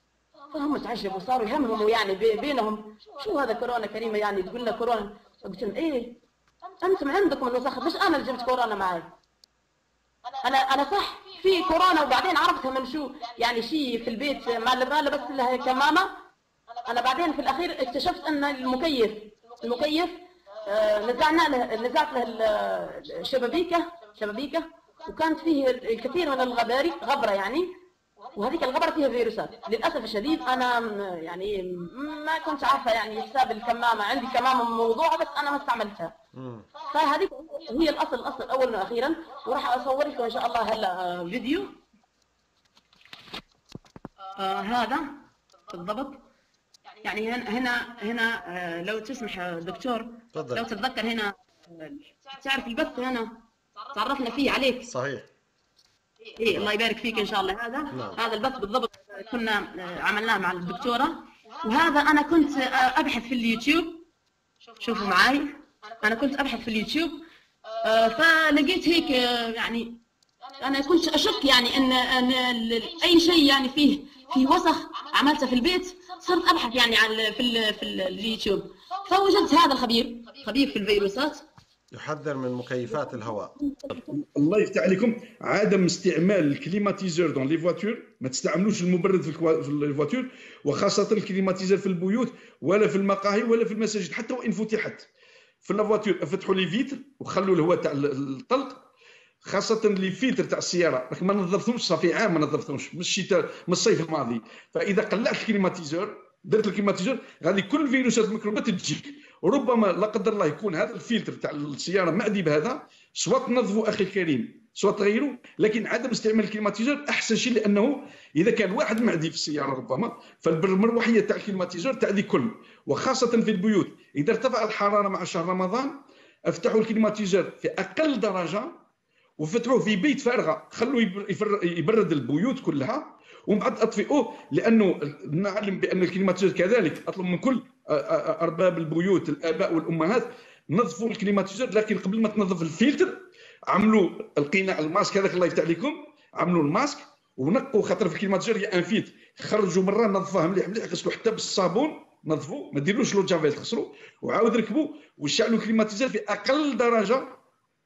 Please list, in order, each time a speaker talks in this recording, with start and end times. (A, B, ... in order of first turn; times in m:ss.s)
0:00.5-0:06.2 A
0:06.8-0:09.1 A
0:10.4-0:16.1 A
0:16.8-0:27.7 A
0:28.4-0:36.1 A
0:36.3-0:36.7 B
0:36.9-0:41.8 A
0:44.4-0:46.2 A
0:47.0-0:53.4 A
0:50.3-0:50.6 B
0:53.9-0:54.9 A
0:54.8-0:55.3 B
0:56.4-1:04.0 A
0:57.9-0:58.2 B
1:04.8-1:07.2 A
1:07.8-1:10.0 A
1:10.6-1:21.4 A
1:21.9-1:23.5 B
1:23.0-1:24.2 A
1:24.1-1:35.1 C
1:35.6-1:38.8 C
1:39.4-2:08.8 C
2:09.4-2:37.4 C